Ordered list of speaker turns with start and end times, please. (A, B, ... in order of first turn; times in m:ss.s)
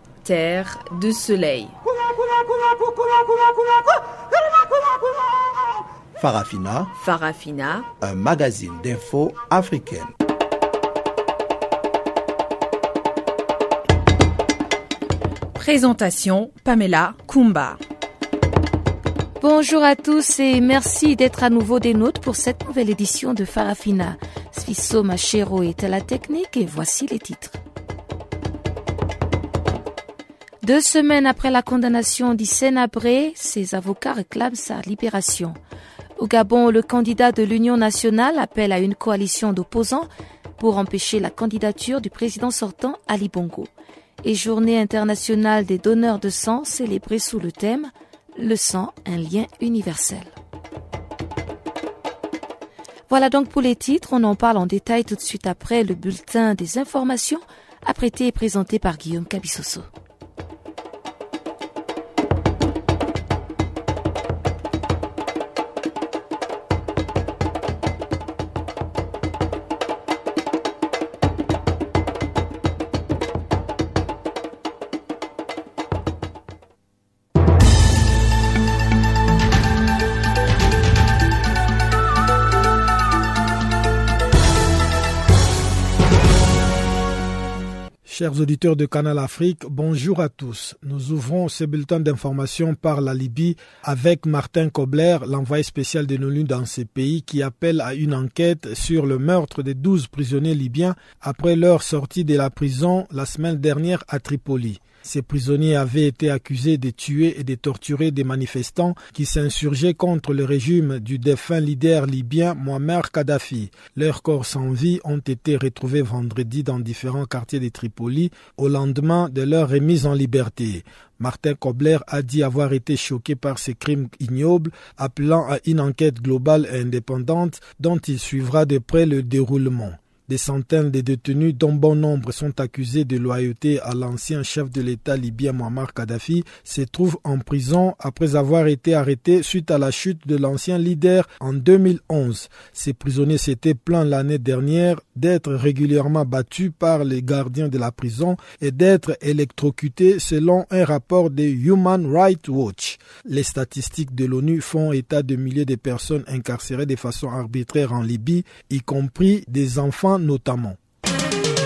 0:00.2-0:01.7 A
0:06.2-0:06.9 B
0:06.9-0:07.9 A
0:08.0-0:10.1 B
0:15.5-0:17.8 A
0:19.4-0:27.6 C
0:30.6-0:35.6 C
0:36.2-0:40.1 C
0:40.6-0:43.7 C
0:44.2-0:50.3 C
0:53.1-0:59.9 C
1:28.0-2:40.8 D